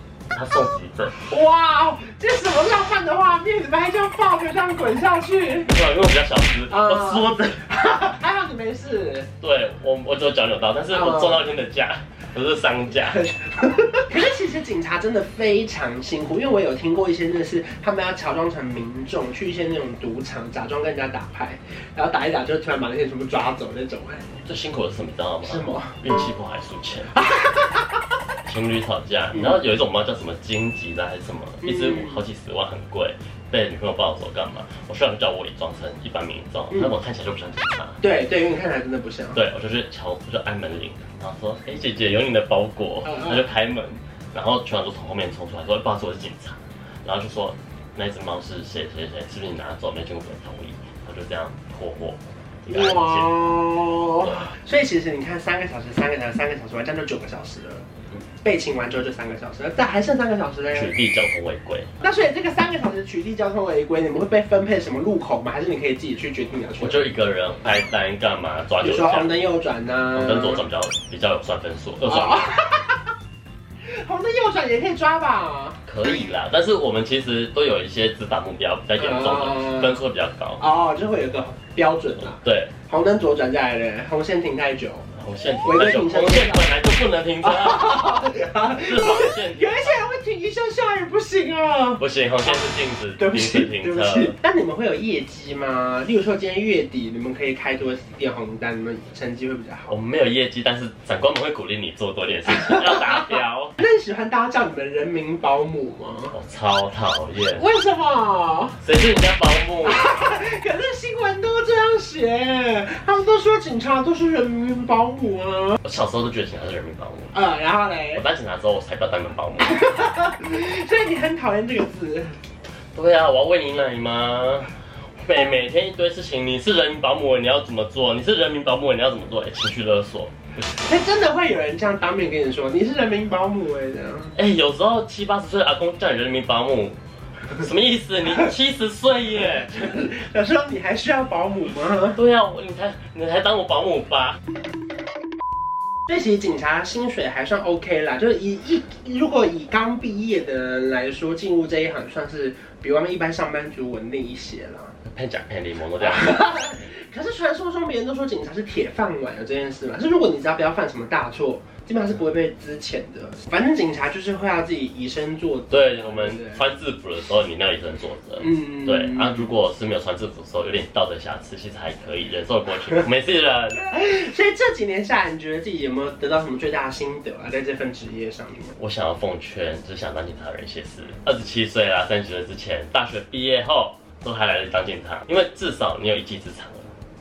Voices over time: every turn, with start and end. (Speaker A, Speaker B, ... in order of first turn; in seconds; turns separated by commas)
Speaker A: 0.3-1.2, Speaker B: 1.2-5.7, Speaker A: 5.7-7.7, Speaker B: 6.7-9.3, Speaker A: 9.4-13.2, Speaker B: 10.9-11.4, Speaker B: 13.1-24.3, Speaker A: 24.4-27.2, Speaker B: 25.4-26.0, Speaker B: 27.1-28.0, Speaker A: 28.5-38.0, Speaker B: 29.3-29.6, Speaker B: 31.6-32.2, Speaker B: 38.0-39.4, Speaker A: 39.3-53.4, Speaker B: 43.0-43.5, Speaker B: 52.7-57.9, Speaker B: 58.4-61.0, Speaker A: 60.7-61.9, Speaker B: 62.0-67.1, Speaker A: 66.8-69.4, Speaker B: 68.8-70.6, Speaker A: 70.1-72.5, Speaker B: 72.1-73.1, Speaker B: 73.9-76.3, Speaker A: 75.9-80.6, Speaker B: 79.0-80.0, Speaker B: 80.6-85.1, Speaker A: 82.4-82.7, Speaker A: 85.2-88.2, Speaker B: 85.6-86.9, Speaker B: 87.4-99.9, Speaker A: 88.7-90.0, Speaker A: 92.0-94.4, Speaker A: 99.9-103.8, Speaker B: 102.5-106.4, Speaker A: 106.3-107.7, Speaker B: 107.5-108.8, Speaker A: 108.8-110.1, Speaker B: 109.8-115.8, Speaker A: 115.8-117.4, Speaker B: 117.3-118.2, Speaker A: 118.1-119.9, Speaker B: 119.6-122.4, Speaker A: 123.0-130.9, Speaker B: 130.8-134.4, Speaker A: 134.4-137.0, Speaker A: 137.6-140.1, Speaker B: 139.6-142.2, Speaker A: 142.1-144.4, Speaker B: 146.1-154.9, Speaker A: 155.0-156.7, Speaker B: 156.0-166.6, Speaker A: 165.7-173.8, Speaker B: 168.4-169.6, Speaker B: 173.9-178.8, Speaker A: 178.8-186.9